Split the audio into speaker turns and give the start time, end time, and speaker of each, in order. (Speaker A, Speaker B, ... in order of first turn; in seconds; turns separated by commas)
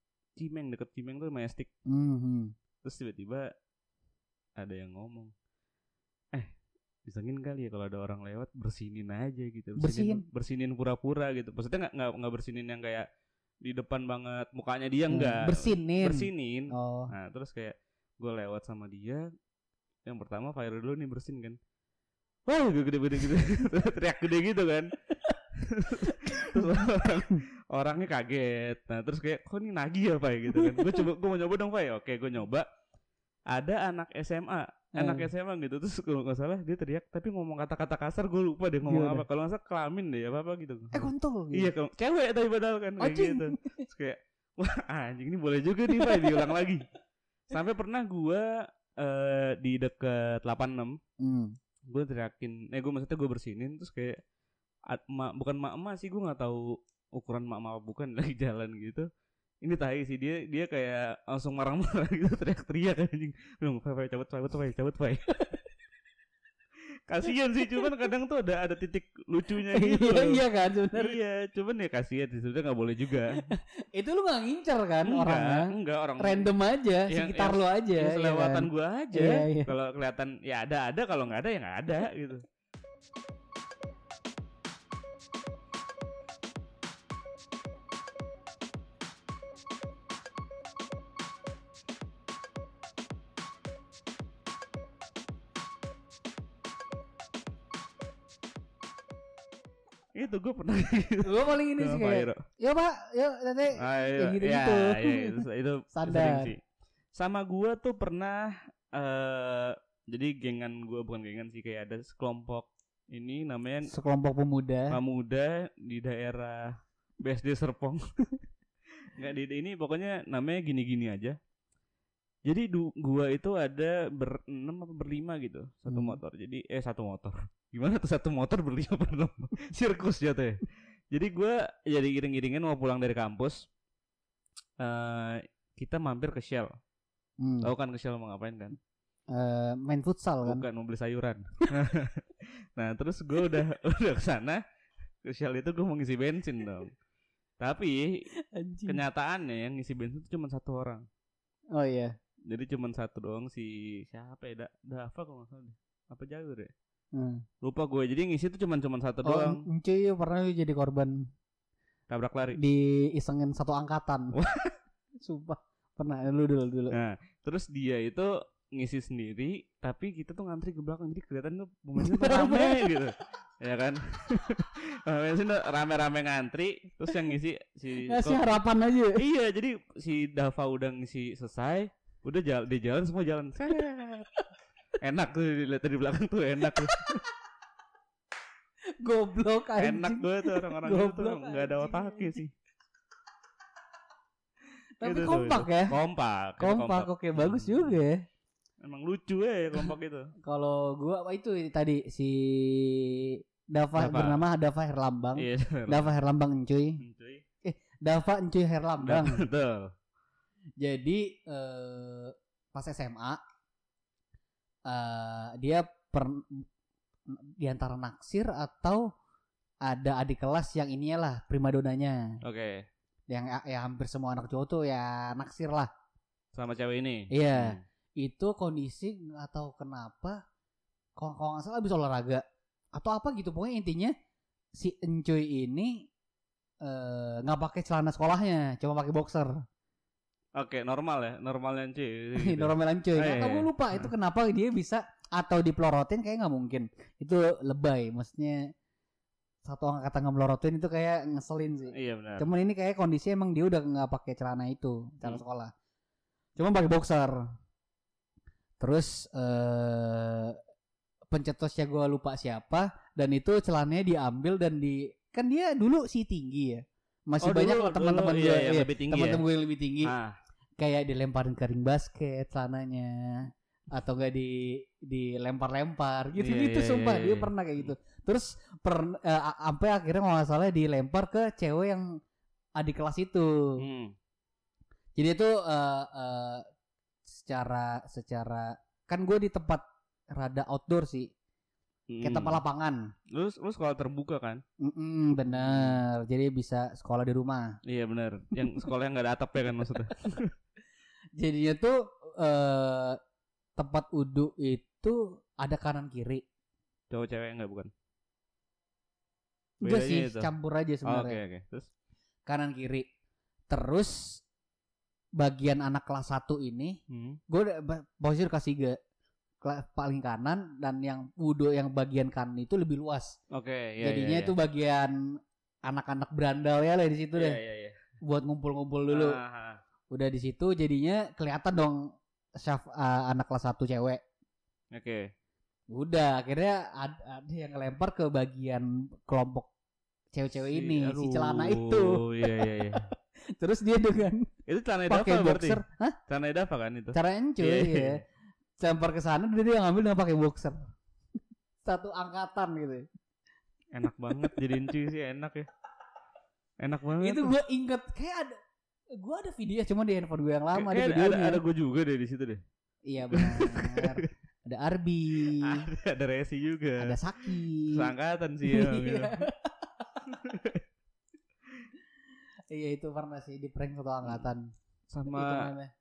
Speaker A: 0.3-1.7, Speaker B: 1.9-2.5, Speaker A: 2.8-3.5, Speaker A: 4.6-5.3, Speaker A: 7.0-13.1, Speaker B: 9.8-10.2, Speaker A: 13.6-19.2, Speaker B: 15.1-17.1, Speaker A: 20.1-21.6, Speaker A: 22.4-24.9, Speaker A: 25.5-32.7, Speaker B: 26.0-27.4, Speaker B: 30.6-31.0, Speaker A: 33.5-46.8, Speaker B: 35.0-35.3, Speaker B: 38.8-39.2, Speaker B: 40.9-41.7, Speaker B: 43.0-43.8, Speaker B: 46.0-46.4, Speaker A: 47.5-51.0, Speaker B: 51.2-51.5, Speaker A: 51.9-54.2, Speaker A: 54.9-59.1, Speaker A: 59.6-65.3, Speaker A: 67.1-70.4, Speaker B: 69.7-71.1, Speaker A: 71.0-73.3, Speaker B: 73.4-79.7, Speaker A: 75.1-76.5, Speaker A: 77.1-82.4, Speaker A: 100.1-102.4, Speaker B: 101.2-106.5, Speaker A: 103.8-106.6, Speaker A: 107.1-113.9, Speaker B: 113.9-115.0, Speaker A: 114.9-118.0, Speaker A: 119.1-121.4, Speaker A: 122.4-133.7, Speaker B: 125.9-126.2, Speaker A: 134.8-136.8, Speaker B: 137.4-137.7, Speaker A: 137.6-138.8, Speaker B: 139.3-140.6, Speaker A: 140.4-144.6, Speaker A: 145.2-146.9, Speaker A: 147.6-148.1, Speaker B: 148.5-149.0, Speaker A: 148.8-151.1, Speaker B: 151.7-152.1, Speaker A: 152.5-156.7, Speaker B: 157.1-157.4, Speaker A: 157.6-159.6, Speaker B: 159.2-161.3, Speaker A: 162.1-162.6, Speaker B: 162.6-164.3, Speaker A: 164.3-164.7, Speaker B: 165.2-166.9, Speaker A: 166.9-178.6, Speaker B: 172.0-172.8, Speaker B: 178.0-179.2, Speaker A: 179.2-184.3, Speaker A: 185.0-187.2, Speaker B: 186.8-187.2, Speaker B: 189.0-192.3, Speaker A: 189.8-192.5, Speaker B: 195.0-195.9, Speaker A: 195.0-197.9, Speaker B: 196.6-198.2, Speaker A: 198.8-200.3, Speaker B: 200.4-207.0, Speaker A: 203.9-204.4, Speaker A: 205.4-206.1, Speaker A: 207.0-207.4, Speaker B: 207.6-209.4, Speaker A: 209.0-209.9, Speaker B: 210.8-213.4, Speaker B: 214.9-216.7, Speaker B: 217.3-219.1, Speaker B: 219.8-222.3, Speaker A: 222.4-222.9, Speaker B: 223.3-225.9, Speaker A: 226.5-227.8, Speaker B: 227.3-230.4, Speaker B: 231.2-234.1, Speaker B: 234.8-236.1, Speaker B: 236.8-239.5, Speaker A: 240.6-244.1, Speaker B: 242.4-248.7, Speaker B: 249.6-255.7, Speaker A: 251.9-252.4, Speaker B: 256.6-257.4, Speaker B: 258.8-260.6, Speaker B: 261.3-270.1, Speaker A: 267.4-269.4, Speaker A: 270.0-270.4, Speaker B: 270.8-282.1, Speaker A: 276.4-277.9, Speaker B: 282.8-283.5, Speaker A: 283.8-284.1, Speaker B: 285.2-286.7, Speaker B: 287.3-291.3, Speaker A: 292.1-292.6, Speaker B: 292.2-293.0, Speaker A: 293.3-294.6, Speaker B: 294.8-297.8, Speaker A: 295.5-296.0, Speaker A: 297.8-300.5, Speaker B: 301.4-303.2, Speaker B: 303.8-306.4, Speaker A: 307.1-307.9, Speaker B: 309.8-311.4, Speaker A: 309.8-310.5, Speaker A: 311.0-311.9, Speaker B: 312.5-313.1, Speaker B: 313.7-314.4, Speaker B: 315.4-317.0, Speaker A: 317.1-317.4, Speaker B: 317.5-319.0, Speaker B: 319.6-323.3, Speaker A: 323.5-324.5, Speaker B: 324.0-325.1, Speaker B: 325.9-327.6, Speaker A: 327.4-327.9, Speaker B: 328.2-329.4, Speaker A: 329.1-329.8, Speaker B: 330.1-332.0, Speaker B: 332.6-334.2, Speaker A: 334.9-335.3, Speaker B: 335.9-339.7, Speaker B: 340.3-344.5, Speaker A: 340.5-343.0, Speaker A: 344.7-348.2, Speaker B: 345.1-346.2, Speaker B: 347.1-348.2, Speaker B: 348.8-350.9, Speaker B: 351.8-353.0, Speaker A: 353.9-355.7, Speaker A: 356.8-357.5, Speaker B: 357.2-358.6, Speaker B: 359.2-361.6, Speaker A: 360.7-362.6, Speaker B: 363.1-365.9, Speaker A: 363.3-364.2, Speaker A: 365.5-369.4, Speaker B: 367.0-368.1, Speaker B: 368.7-370.1, Speaker A: 370.4-370.8, Speaker B: 372.7-374.7, Speaker A: 375.1-375.7, Speaker B: 375.3-375.9